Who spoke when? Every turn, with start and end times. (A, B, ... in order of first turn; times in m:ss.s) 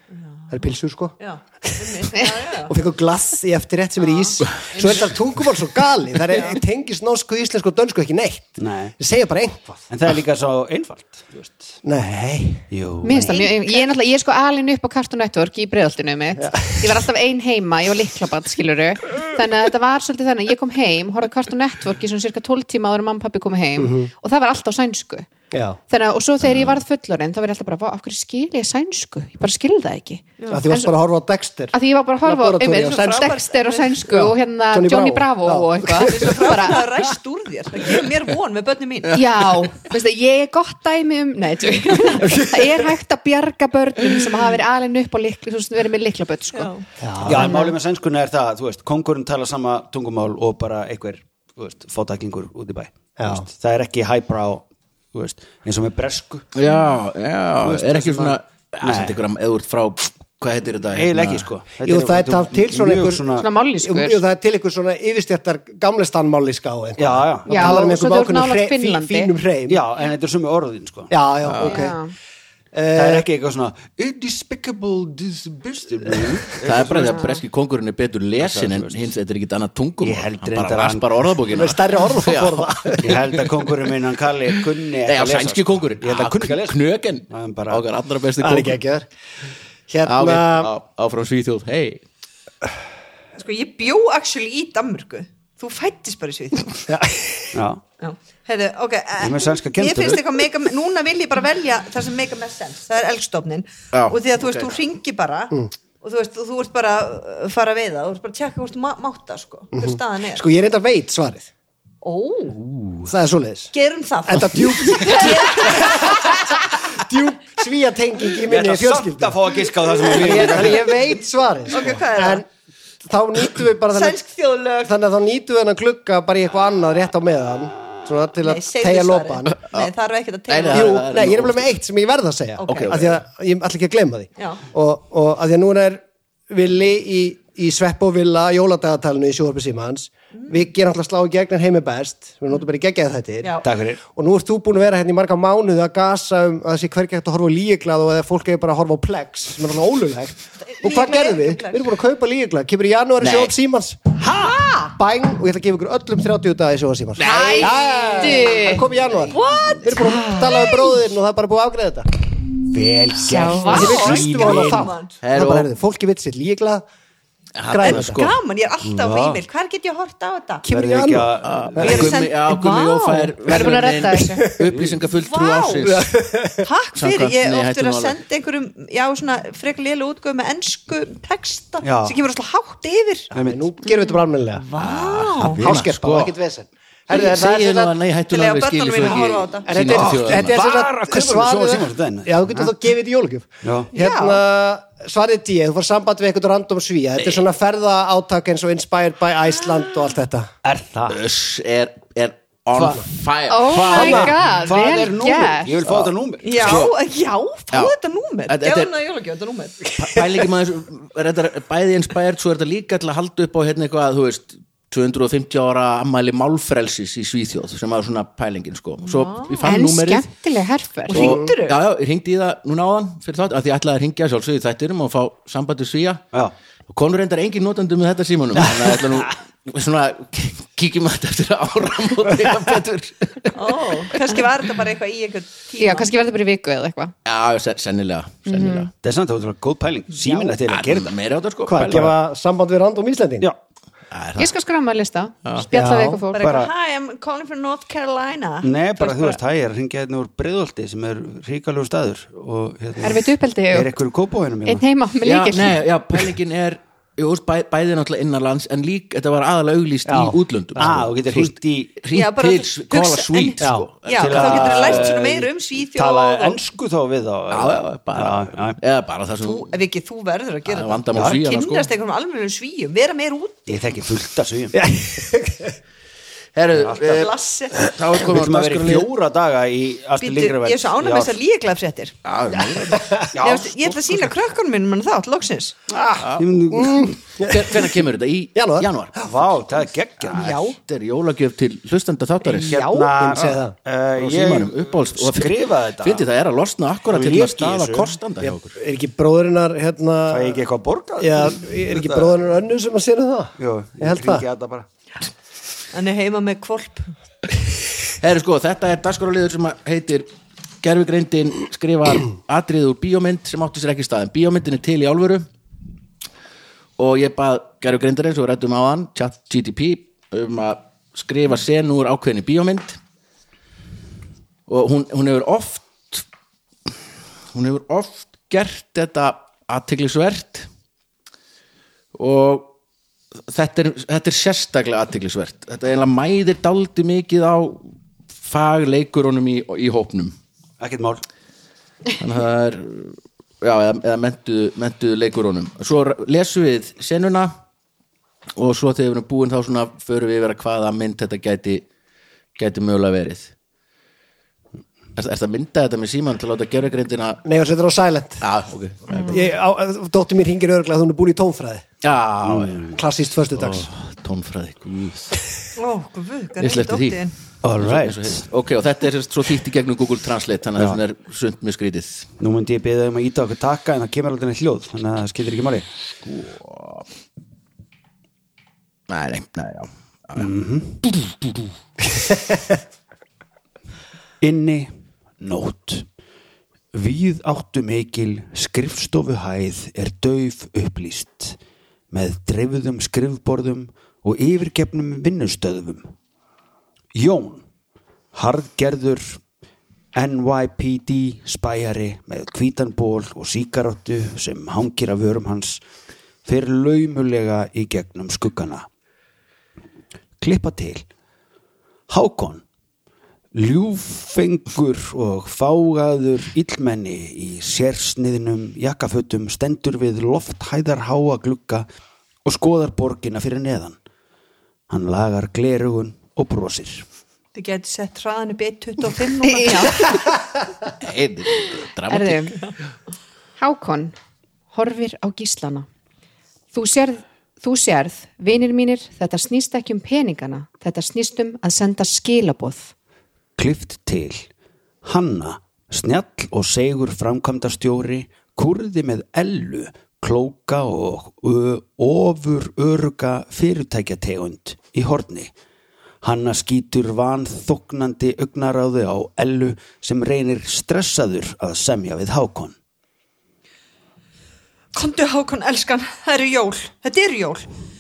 0:00.1-0:02.7 A
0:00.5-0:09.8 B
0:04.0-0:05.1 A
0:06.3-0:06.6 A
0:08.6-0:09.0 C
0:09.9-0:11.8 C
0:11.8-0:12.7 B
0:12.7-0:13.4 C
0:13.0-0:25.3 D
0:13.1-0:13.8 A
0:16.4-0:16.9 B
0:23.8-0:24.1 B
0:25.5-0:25.8 B
0:25.9-0:30.9 D
0:30.4-0:30.6 A
0:30.5-0:31.7 B
0:31.7-0:36.9 D
0:32.2-0:33.4 B
0:33.0-0:34.0 A
0:34.1-0:36.7 B
0:36.0-0:39.2 A
0:39.1-0:46.7 D
0:42.2-0:42.6 B
0:46.5-0:46.8 A
0:47.0-0:47.6 B
0:47.2-0:56.5 C
0:47.3-0:47.7 D
0:53.2-0:53.4 B
0:56.5-1:01.5 E
0:57.6-0:59.2 C
1:00.9-1:03.5 C
1:01.8-1:03.3 B
1:03.3-1:04.2 D
1:03.8-1:09.8 B
1:07.0-1:07.9 C
1:07.5-1:09.3 D
1:09.7-1:11.1 C
1:11.1-1:12.0 B
1:11.4-1:11.8 E
1:11.6-1:12.1 D
1:12.7-1:13.2 B
1:12.9-1:17.3 C
1:16.6-1:23.4 E
1:18.4-1:19.0 C
1:20.0-1:21.2 C
1:21.5-1:23.2 B
1:23.0-1:26.8 C
1:25.0-1:28.8 E
1:27.3-1:27.8 C
1:28.4-1:29.1 B
1:29.9-1:30.7 B
1:30.0-1:32.0 E
1:33.4-1:36.9 A
1:36.9-1:37.5 B
1:37.5-1:37.8 C
1:38.0-1:50.4 A
1:39.2-1:40.2 C
1:43.9-1:44.7 E
1:49.7-1:51.5 B
1:52.0-1:52.6 A
1:53.0-1:53.7 B
1:53.7-1:56.4 A
1:54.3-2:02.5 B
1:58.4-2:01.0 C
2:01.7-2:02.4 A
2:03.0-2:04.2 B
2:03.9-2:04.9 A
2:04.8-2:09.6 B
2:08.4-2:11.1 A
2:10.5-2:11.7 E
2:10.7-2:42.1 B
2:12.6-2:13.0 A
2:12.7-2:13.2 E
2:23.6-2:24.0 C
2:30.6-2:31.9 A
2:33.2-2:33.5 E
2:37.2-2:37.7 E
2:37.2-2:38.2 A
2:37.2-2:38.8 D
2:39.3-2:41.0 A
2:42.7-2:44.9 C
2:43.2-2:44.2 D
2:43.6-2:46.8 B
2:43.7-2:45.1 A
2:45.2-2:45.7 E
2:47.6-2:48.3 E
2:47.7-2:48.2 B
2:47.8-2:50.6 A
2:48.8-2:49.4 C
2:50.6-2:51.4 B
2:50.7-2:52.2 C
2:51.4-2:56.1 E
2:51.8-2:53.4 A
2:53.4-2:54.4 D
2:54.2-2:54.7 B
2:54.7-2:55.0 C
2:55.1-2:55.9 A
2:55.8-2:56.6 B
2:56.6-3:03.3 A
2:56.9-2:58.2 E
3:01.8-3:02.2 C
3:03.3-3:04.6 B
3:03.3-3:03.7 C
3:04.7-3:05.6 A
3:04.8-3:06.3 E
3:05.5-3:07.9 B
3:07.1-3:10.6 E
3:08.3-3:09.9 A
3:09.7-3:20.5 B
3:09.8-3:12.7 C
3:13.6-3:13.9 C
3:13.9-3:14.4 A
3:20.6-3:21.2 C
3:21.1-3:24.1 E
3:22.7-3:23.0 C
3:23.5-3:25.7 D
3:23.6-3:26.8 C
3:23.9-3:24.3 B
3:25.8-3:26.9 E
3:26.4-3:29.9 A
3:28.5-3:28.9 E
3:30.0-3:40.3 E
3:39.0-3:39.7 A
3:39.6-3:41.2 D
3:41.1-3:41.8 A
3:41.1-3:46.2 E
3:46.9-3:54.2 E
3:48.6-3:49.4 C
3:53.5-3:56.1 A
3:55.8-3:57.1 D
3:57.2-3:58.9 E
3:58.4-3:58.9 D
3:59.0-4:01.1 C
4:00.6-4:02.1 E
4:01.7-4:03.5 B
4:01.8-4:02.1 C
4:04.1-4:04.5 E
4:04.4-4:06.5 D
4:05.7-4:06.2 B
4:05.9-4:06.7 C
4:06.3-4:09.4 A
4:08.6-4:14.8 C
4:13.0-4:13.9 D
4:14.6-4:15.8 D
4:15.2-4:25.2 E
4:20.1-4:20.4 B
4:20.8-4:22.0 C
4:22.1-4:26.6 A
4:23.6-4:23.9 B
4:24.1-4:28.8 C
4:27.5-4:29.7 E
4:29.4-4:33.8 A
4:30.7-4:31.9 E
4:33.7-4:34.8 C
4:34.7-4:35.7 B
4:36.5-4:37.3 E
4:36.8-4:41.3 C
4:37.0-4:37.8 A
4:37.8-4:39.1 E
4:40.2-4:42.1 A
4:42.2-4:43.2 E
4:42.9-4:43.2 B
4:43.3-4:44.3 C
4:43.4-4:45.8 A
4:45.9-4:47.2 C
4:46.2-4:46.5 E
4:46.7-4:47.9 B
4:47.4-4:49.1 E
4:48.6-4:49.3 B
4:49.2-4:50.6 C
4:50.3-4:50.8 A
4:50.4-4:52.9 E
4:52.5-4:56.2 C
4:52.7-4:53.8 B
4:54.1-4:58.8 E
4:57.1-4:58.1 C
4:58.7-5:00.6 B
5:00.3-5:02.4 C
5:01.2-5:04.4 B
5:03.6-5:04.9 C
5:05.9-5:07.1 A
5:08.2-5:10.3 E
5:10.8-5:15.4 E
5:17.0-5:23.0 E
5:24.7-5:26.2 E
5:27.5-5:30.7 E
5:32.1-5:32.7 E
5:33.5-5:37.8 E
5:38.4-5:40.3 E
5:40.8-5:41.2 C
5:42.2-5:47.5 E
5:48.6-5:51.9 E
5:52.6-5:53.5 E
5:55.2-5:57.4 E
5:57.4-5:58.4 B
5:58.4-5:59.4 E
5:59.3-6:01.8 B
6:02.0-6:02.9 E
6:02.4-6:03.0 C
6:02.9-6:03.9 B
6:03.5-6:05.3 E
6:05.8-6:07.4 A
6:06.6-6:07.2 E
6:07.6-6:08.4 C
6:07.8-6:12.3 E
6:12.4-6:15.9 C
6:16.2-6:17.0 E
6:19.1-6:20.5 E
6:20.4-6:21.0 C
6:21.0-6:21.4 E
6:24.4-6:26.1 C
6:26.9-6:31.6 C
6:32.1-6:36.1 C
6:37.1-6:37.6 C
6:38.3-6:39.4 C
6:40.1-6:45.8 C
6:46.4-6:48.9 C
6:50.4-6:51.1 C
6:52.1-6:52.6 C
6:53.5-7:01.9 C
7:02.4-7:04.0 C
7:04.9-7:07.0 C
7:07.5-7:10.1 A
7:09.4-7:10.2 D
7:11.0-7:12.6 E
7:11.6-7:12.6 D
7:13.6-7:14.1 D
7:14.7-7:15.9 D
7:16.7-7:22.9 D
7:23.6-7:24.5 C
7:25.0-7:35.5 C
7:36.2-7:42.8 C
7:44.9-7:47.7 A